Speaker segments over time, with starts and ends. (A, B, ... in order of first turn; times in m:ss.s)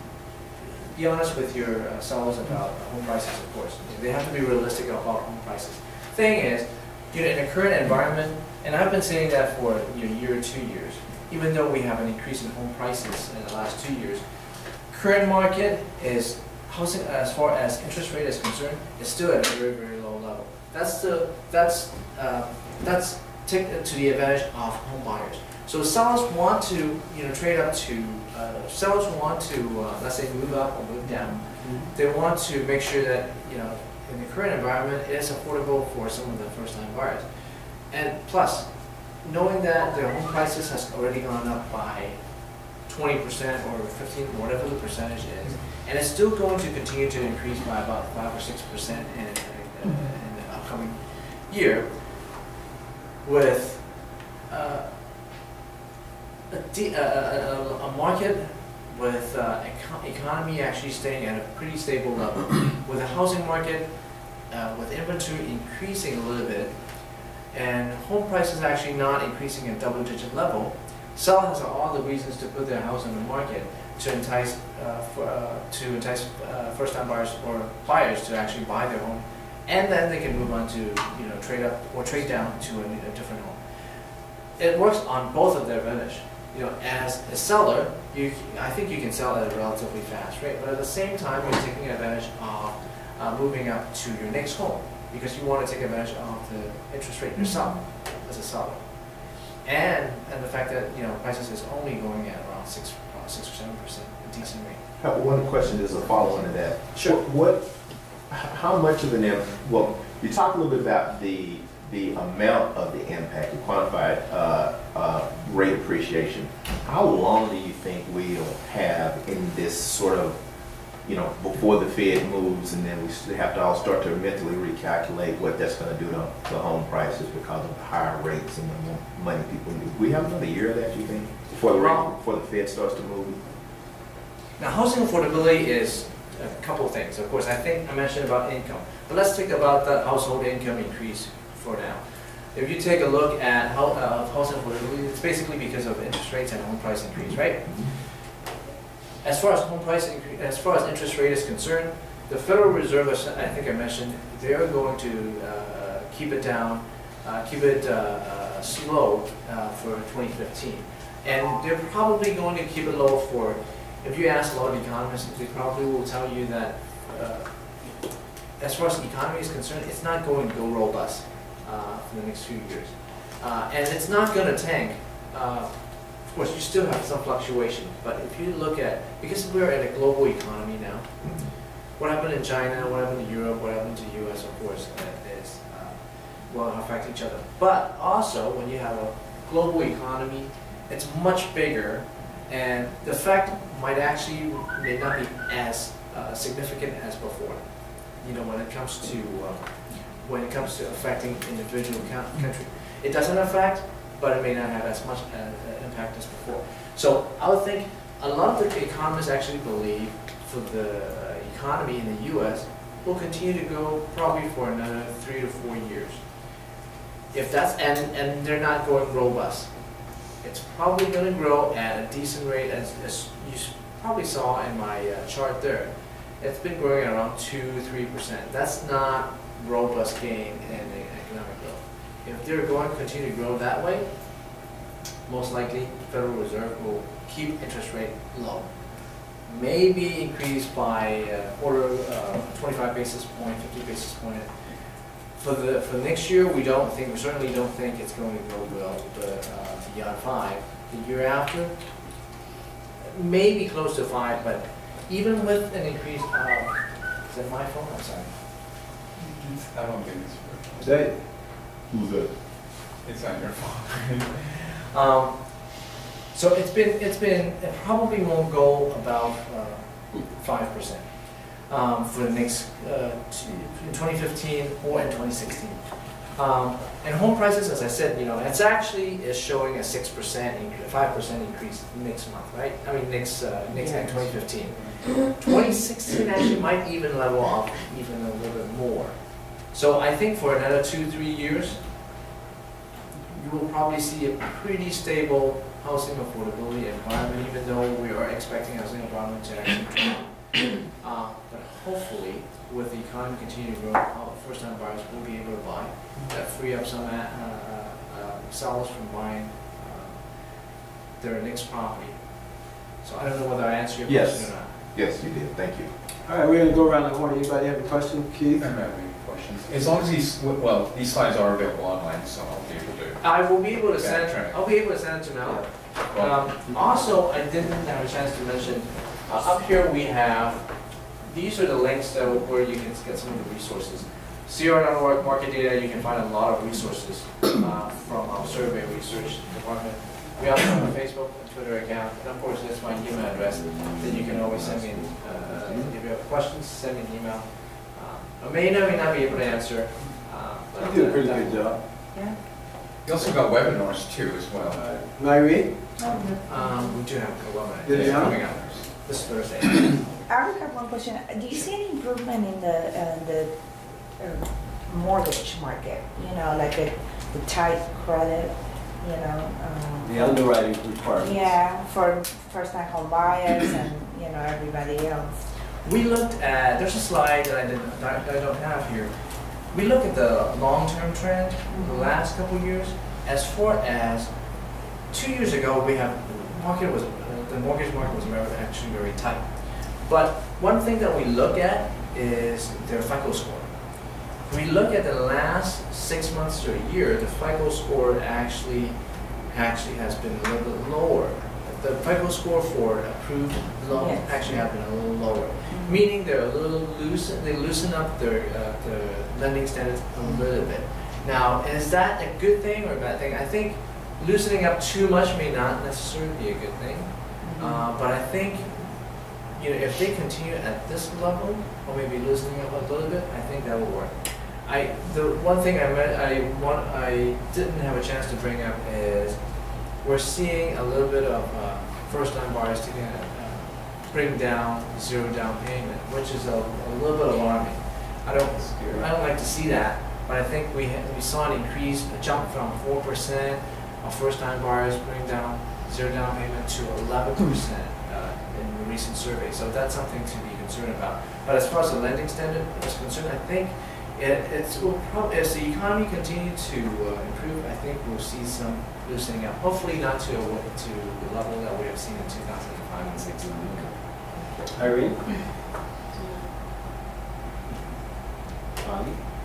0:01.0-0:14.2 A
0:14.9-0:37.2 A
0:31.6-0:31.9 B
0:37.9-0:38.7 A
0:39.2-0:42.2 A
0:42.8-0:51.9 A
0:53.2-0:54.9 A
0:56.5-1:03.9 A
1:04.5-1:06.7 A
1:07.5-1:23.6 A
1:24.6-1:38.8 A
1:39.6-1:44.8 A
1:45.0-1:47.7 C
1:46.9-1:47.2 A
1:48.3-2:00.4 C
2:01.0-2:13.4 C
2:11.7-2:12.1 A
2:14.6-2:22.0 A
2:22.5-2:28.0 A
2:29.2-2:48.0 A
2:48.6-3:01.1 A
3:01.2-3:01.5 C
3:02.0-3:06.0 A
3:06.5-3:17.6 A
3:18.2-3:36.2 A
3:37.3-3:39.7 A
3:40.4-3:54.1 A
3:55.3-3:58.7 A
3:59.4-4:04.5 A
4:05.4-4:11.7 A
4:13.0-4:18.3 A
4:19.2-4:21.0 D
4:20.8-4:21.2 B
4:21.9-4:22.3 C
4:23.0-4:24.5 D
4:24.9-4:25.8 A
4:26.3-4:31.1 A
4:31.7-4:35.8 A
4:36.4-4:49.2 A
4:49.7-4:51.8 A
4:53.3-5:10.2 A
5:11.2-5:12.2 A
5:13.0-5:14.7 A
5:14.1-5:15.9 C
5:16.3-5:18.7 B
5:18.6-5:24.6 D
5:23.2-5:30.7 A
5:26.1-5:26.4 D
5:31.2-5:51.8 A
5:50.8-5:51.8 B
5:53.0-5:55.0 D
5:54.7-5:55.7 B
5:56.0-5:56.9 E
5:56.4-6:00.0 A
5:57.9-5:58.5 B
5:57.9-5:58.9 D
6:00.3-6:10.4 E
6:10.0-6:11.6 B
6:11.2-6:15.4 E
6:15.8-6:19.1 A
6:19.7-6:24.3 A
6:21.7-6:22.1 E
6:25.1-6:29.5 A
6:30.0-6:33.7 A
6:34.4-6:39.0 A
6:39.5-6:58.9 A
6:43.9-6:44.6 E
6:45.7-6:46.0 E
6:57.4-6:57.8 E
6:59.5-7:09.4 A
7:10.0-7:43.9 A
7:18.5-7:19.0 B
7:44.7-7:45.2 B
7:48.8-7:49.2 B